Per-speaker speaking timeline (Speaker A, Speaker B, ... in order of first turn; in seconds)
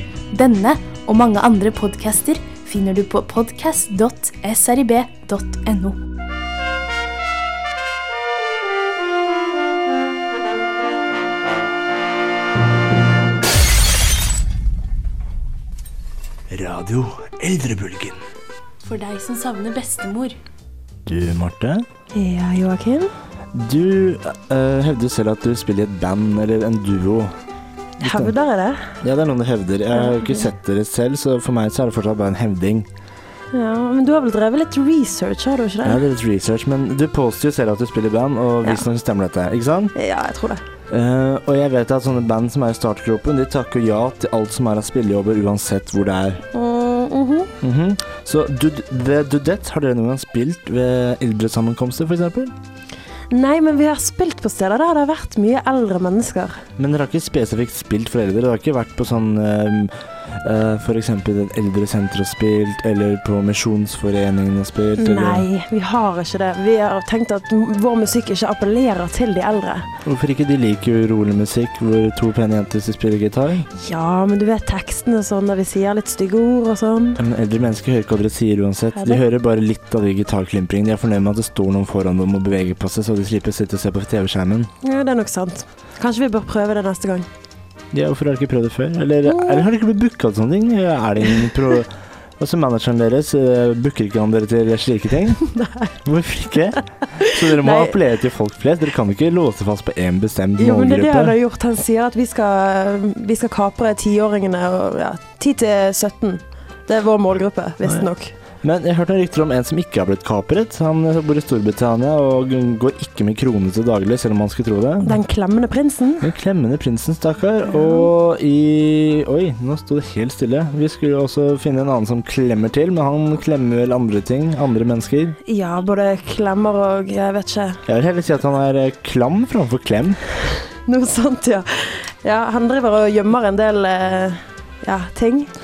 Speaker A: 0.3-6.0, 18.8-20.4
Speaker B: 16.5-18.2, 21.1-21.8, 23.5-27.3, 28.0-28.3, 29.0-32.9, 35.8-39.9, 40.9-46.4, 47.6-52.5, 56.8-65.5, 70.0-73.7, 77.2-84.7, 87.9-95.4, 96.0-101.4, 107.8-108.1, 108.6-115.2, 116.2-125.4, 127.8-130.2
Speaker C: 22.1-23.1, 28.0-28.9, 30.0-30.5, 33.5-36.0, 39.9-40.6, 46.5-47.5, 53.3-56.6, 65.0-69.9, 73.7-77.2, 79.0-79.2, 84.8-87.3, 89.2-89.7, 95.5-95.9, 97.1-98.0, 100.6-108.3, 115.0-116.3, 117.6-118.1, 125.5-127.8, 130.8-135.5